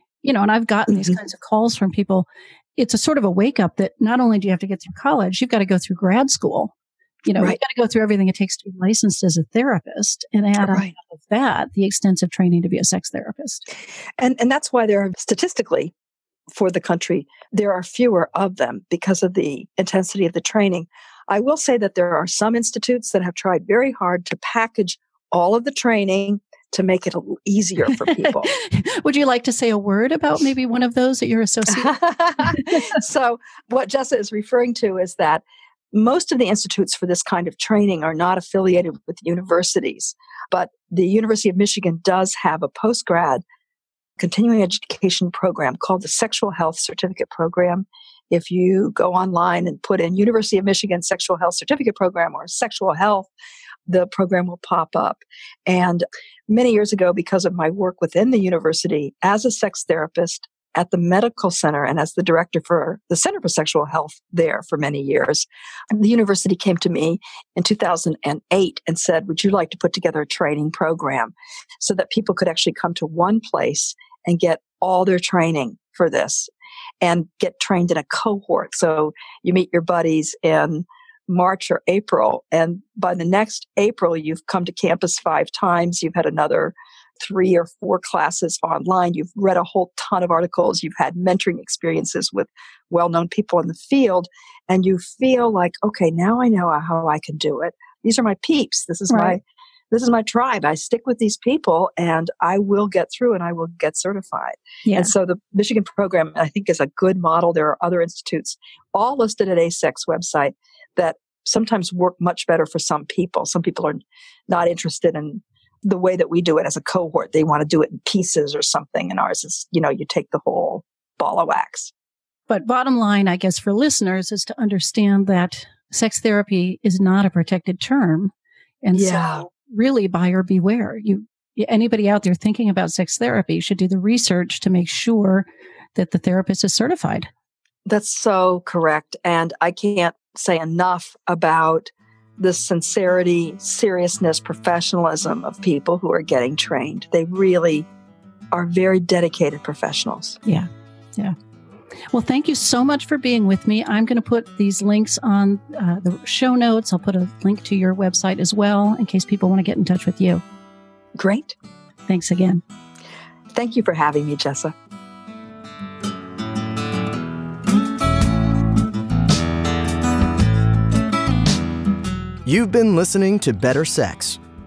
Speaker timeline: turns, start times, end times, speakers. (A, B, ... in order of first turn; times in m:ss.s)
0:00.2-0:06.7 A
0:00.9-0:01.2 B
0:07.2-0:13.6 A
0:10.6-0:10.9 B
0:14.2-0:15.9 B
0:16.5-0:28.5 B
0:27.9-0:32.9 A
0:31.7-0:43.4 B
0:44.2-0:53.3 B
0:53.9-2:01.9 B
1:39.1-1:39.4 A
1:44.9-1:45.1 A
2:02.5-2:17.3 A
2:08.9-2:09.4 B
2:17.9-2:27.9 B
2:28.5-2:30.4 B
2:30.5-2:31.4 A
2:32.1-2:40.4 A
2:41.2-2:41.6 B
2:42.1-2:42.6 A
2:43.5-2:44.7 B
2:52.4-2:54.4 C